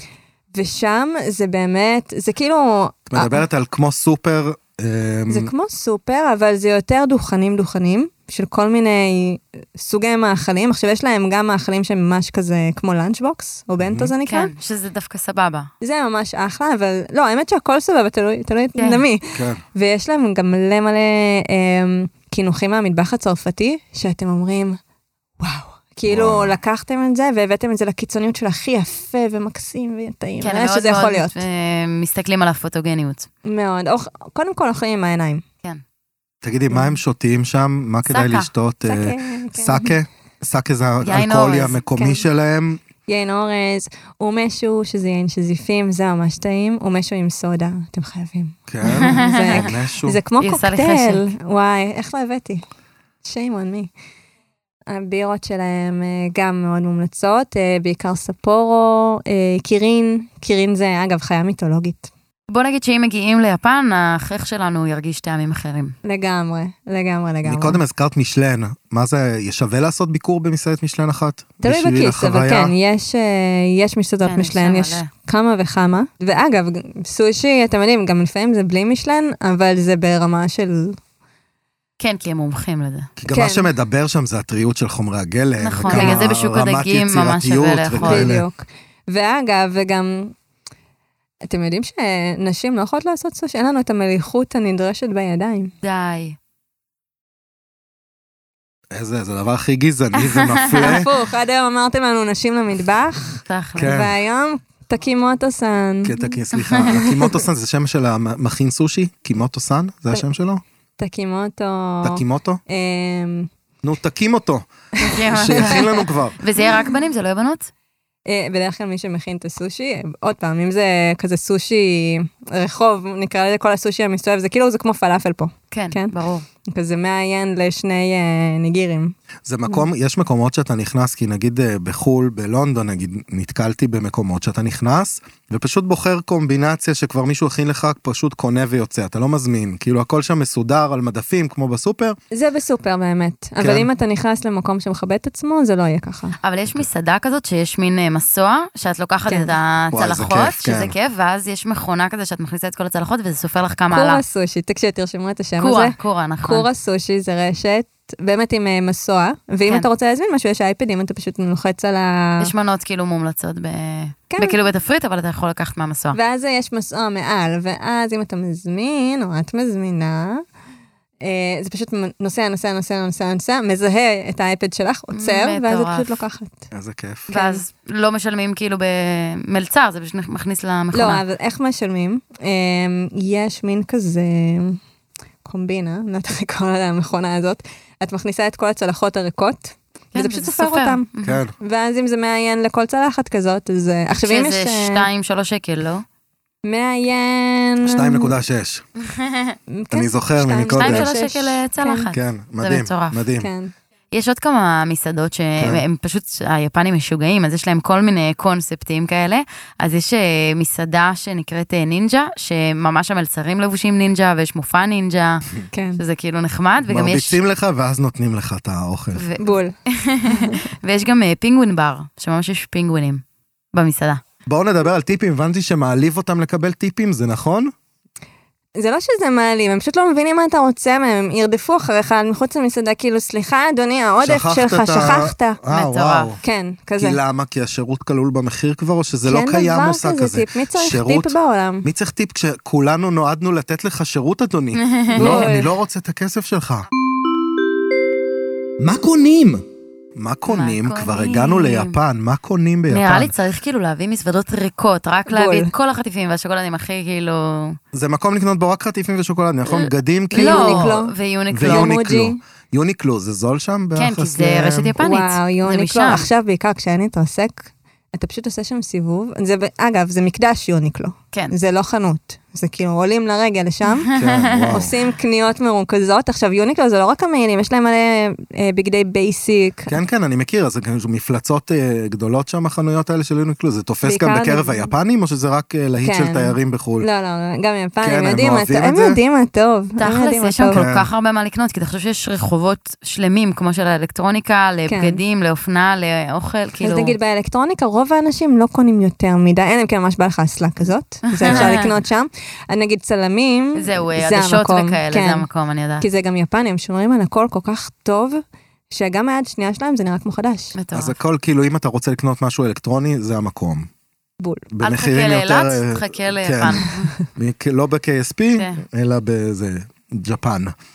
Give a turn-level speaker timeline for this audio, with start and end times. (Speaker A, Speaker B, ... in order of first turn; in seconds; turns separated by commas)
Speaker A: 0.5-3.4, Speaker B: 3.1-5.5, Speaker A: 5.3-14.5, Speaker B: 13.8-14.1, Speaker C: 14.2-15.7, Speaker A: 15.8-24.8, Speaker C: 18.8-19.0, Speaker B: 19.3-19.6, Speaker A: 25.4-31.4, Speaker B: 26.1-26.6, Speaker C: 30.4-33.3, Speaker A: 33.4-35.4, Speaker B: 36.4-42.8, Speaker A: 36.7-37.0, Speaker C: 38.0-38.5, Speaker A: 38.9-40.0, Speaker C: 41.0-41.8, Speaker A: 42.0-42.2, Speaker A: 43.1-52.6, Speaker B: 48.7-50.2, Speaker C: 48.8-49.7, Speaker C: 50.4-51.3, Speaker A: 53.2-53.9, Speaker A: 54.9-62.1, Speaker C: 62.5-65.9, Speaker A: 66.0-67.8, Speaker B: 67.4-72.7, Speaker A: 71.6-81.0, Speaker C: 74.2-75.1, Speaker C: 82.0-83.1, Speaker B: 83.2-88.4, Speaker A: 83.3-83.7, Speaker C: 85.6-88.3, Speaker A: 85.9-86.2, Speaker A: 88.0-90.3, Speaker A: 91.5-95.7, Speaker C: 95.8-96.4, Speaker B: 98.9-101.1, Speaker C: 100.2-100.9, Speaker A: 100.8-106.3, Speaker C: 103.5-104.0, Speaker B: 103.8-104.1, Speaker B: 106.0-110.6, Speaker C: 106.5-107.0, Speaker A: 111.0-113.5, Speaker B: 112.0-112.6, Speaker B: 113.8-114.7, Speaker A: 115.0-115.9, Speaker C: 115.0-117.7, Speaker B: 115.2-116.4, Speaker A: 118.2-126.1, Speaker C: 125.7-126.4, Speaker A: 126.7-129.1, Speaker B: 129.4-142.2, Speaker A: 142.3-146.4, Speaker B: 143.6-143.9, Speaker C: 146.4-154.2, Speaker A: 149.3-149.5, Speaker B: 149.9-150.9, Speaker A: 153.9-162.5, Speaker C: 155.6-156.7, Speaker C: 162.4-166.2, Speaker A: 164.3-164.6, Speaker A: 166.1-170.4, Speaker A: 171.2-176.6, Speaker C: 175.1-176.2, Speaker B: 176.7-177.3, Speaker C: 177.3-181.2, Speaker A: 177.3-177.6, Speaker A: 180.9-184.8, Speaker A: 185.4-191.1, Speaker C: 190.1-191.4, Speaker B: 191.2-191.5, Speaker A: 191.6-195.1, Speaker C: 194.1-196.0, Speaker A: 196.6-198.3, Speaker B: 197.8-198.8, Speaker C: 199.0-199.6, Speaker A: 199.7-202.1, Speaker B: 199.9-201.1, Speaker C: 200.7-203.2, Speaker B: 202.1-203.5, Speaker A: 203.4-203.7, Speaker C: 204.1-217.4, Speaker B: 205.6-205.8, Speaker A: 215.7-216.0, Speaker B: 216.8-219.2, Speaker C: 219.1-224.2, Speaker A: 219.4-219.8, Speaker A: 220.3-220.6, Speaker B: 224.5-227.7, Speaker A: 228.8-235.6, Speaker B: 234.2-236.4, Speaker C: 235.7-236.3, Speaker A: 236.4-237.2, Speaker B: 237.0-246.9, Speaker A: 239.2-241.9, Speaker C: 244.7-245.5, Speaker A: 245.1-245.7, Speaker B: 248.8-249.6, Speaker B: 250.2-253.3, Speaker C: 250.5-252.0, Speaker C: 252.9-257.8, Speaker A: 255.3-255.7, Speaker B: 257.9-260.9, Speaker C: 259.7-261.9, Speaker A: 260.3-262.4, Speaker B: 261.5-264.9, Speaker C: 263.9-266.3, Speaker A: 265.0-274.1, Speaker C: 273.9-274.9, Speaker B: 274.1-274.9, Speaker A: 274.7-280.0, Speaker B: 279.9-287.1, Speaker A: 284.0-284.9, Speaker A: 286.0-290.9, Speaker B: 288.0-289.2, Speaker C: 290.0-297.1, Speaker B: 290.7-291.1, Speaker A: 294.9-295.2, Speaker A: 296.8-305.5, Speaker C: 301.4-302.0, Speaker B: 301.5-301.8, Speaker C: 303.7-306.1, Speaker A: 306.0-310.8, Speaker C: 310.7-311.1, Speaker B: 310.9-313.9, Speaker A: 314.4-314.6, Speaker B: 314.7-320.7, Speaker C: 314.8-317.1, Speaker C: 318.6-318.8